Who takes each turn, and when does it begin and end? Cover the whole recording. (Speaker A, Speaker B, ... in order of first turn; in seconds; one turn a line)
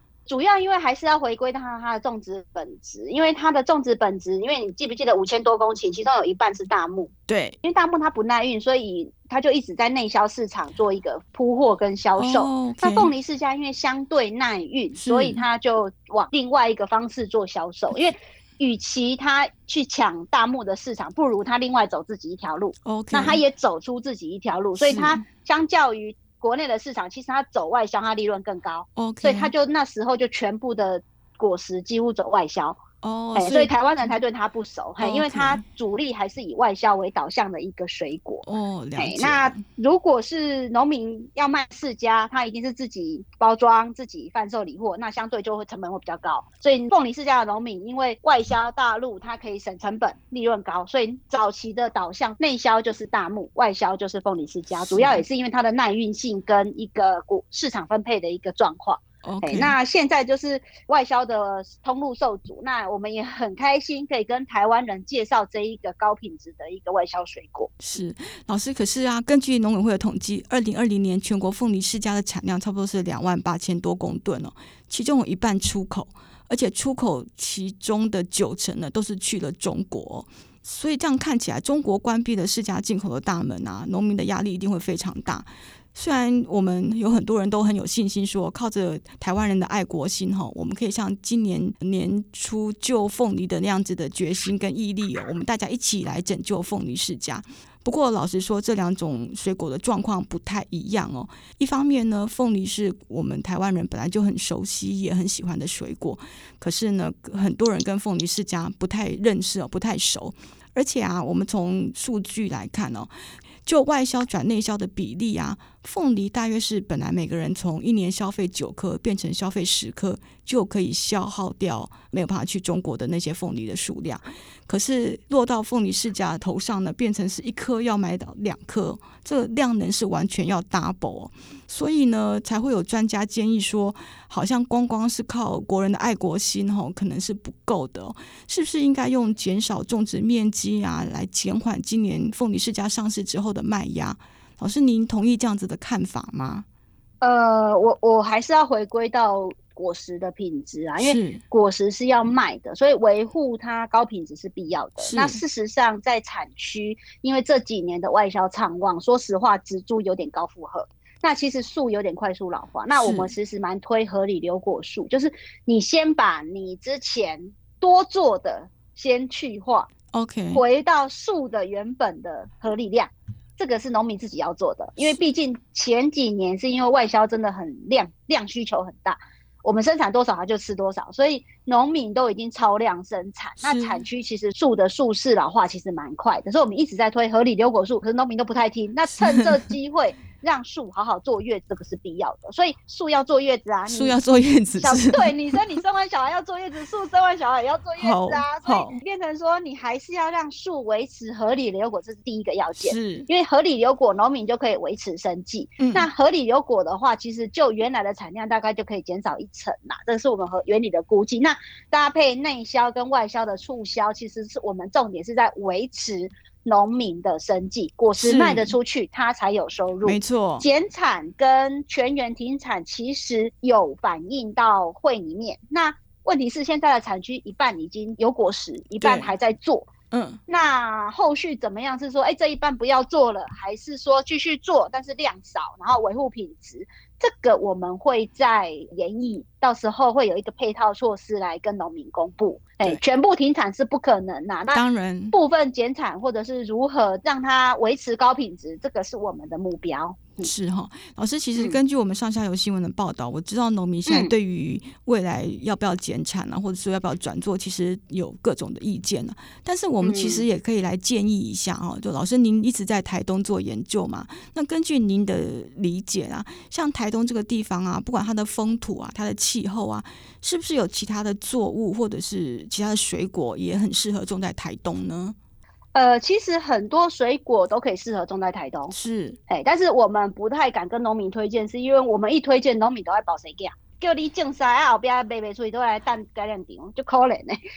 Speaker A: 0.3-7.1
Speaker B: 7.3-7.6
Speaker A: 7.6-32.8
Speaker B: 12.2-13.1
Speaker B: 15.0-15.4
Speaker B: 22.9-23.4
Speaker B: 24.8-25.2
Speaker B: 29.0-29.5
Speaker B: 33.0-33.7
Speaker A: 33.4-38.5
Speaker B: 35.0-35.6
Speaker B: 38.5-39.6
Speaker A: 39.0-67.7
Speaker B: 54.8-55.2
Speaker B: 59.2-59.7
Speaker B: 67.8-113.1
Speaker B: 113.6-146.7
Speaker A: 147.2-169.9
Speaker B: 151.0-151.4
Speaker B: 155.0-155.4
Speaker B: 162.9-163.3
Speaker B: 170.1-170.6
Speaker A: 170.5-194.2
Speaker B: 183.6-184.0
Speaker B: 189.2-189.5
Speaker B: 193.9-195.6
Speaker A: 194.8-229.9
Speaker B: 198.0-199.0
Speaker B: 202.8-203.3
Speaker B: 205.8-206.1
Speaker B: 218.2-218.8
Speaker B: 220.1-220.7
Speaker B: 229.0-229.3
Speaker B: 230.1-230.4
Speaker A: 230.5-244.8
Speaker B: 244.7-245.3
Speaker A: 245.3-250.5
Speaker B: 250.4-275.4
Speaker A: 254.1-254.3
Speaker A: 260.0-260.5
Speaker A: 275.9-278.9
Speaker B: 278.9-279.4
Speaker A: 279.5-287.6